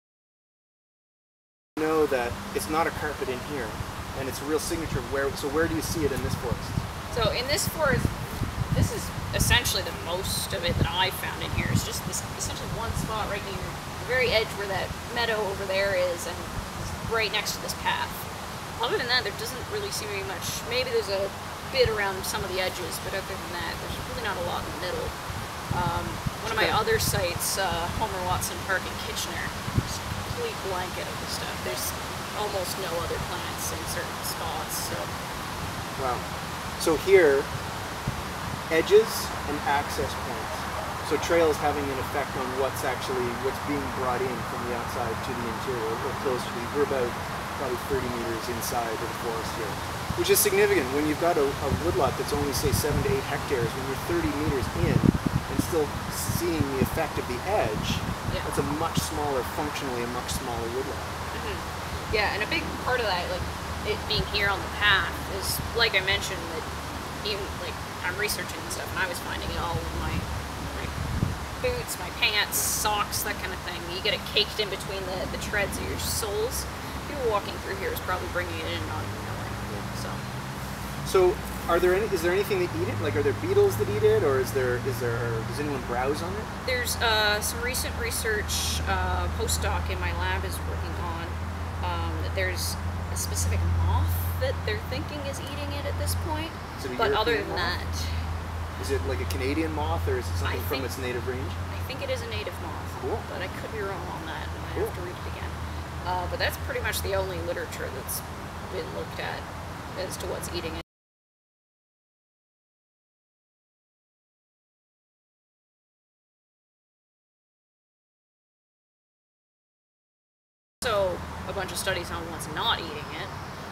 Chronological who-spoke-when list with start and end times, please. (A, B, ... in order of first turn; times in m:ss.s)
0:01.8-0:06.8 A
0:07.1-0:08.2 B
0:08.7-0:18.2 B
0:18.8-0:25.1 B
0:25.7-0:35.1 B
0:26.4-0:26.8 A
0:36.0-0:36.2 A
0:36.8-0:37.5 A
0:38.7-1:01.1 A
1:01.3-1:06.6 B
1:07.2-1:10.9 B
1:11.6-1:20.2 B
1:21.0-1:26.5 A
1:26.6-1:38.1 B
1:36.8-1:37.8 A
1:38.8-1:41.6 A
1:40.4-1:40.9 B
1:41.7-1:50.8 B
1:43.0-1:43.3 A
2:00.8-2:03.3 B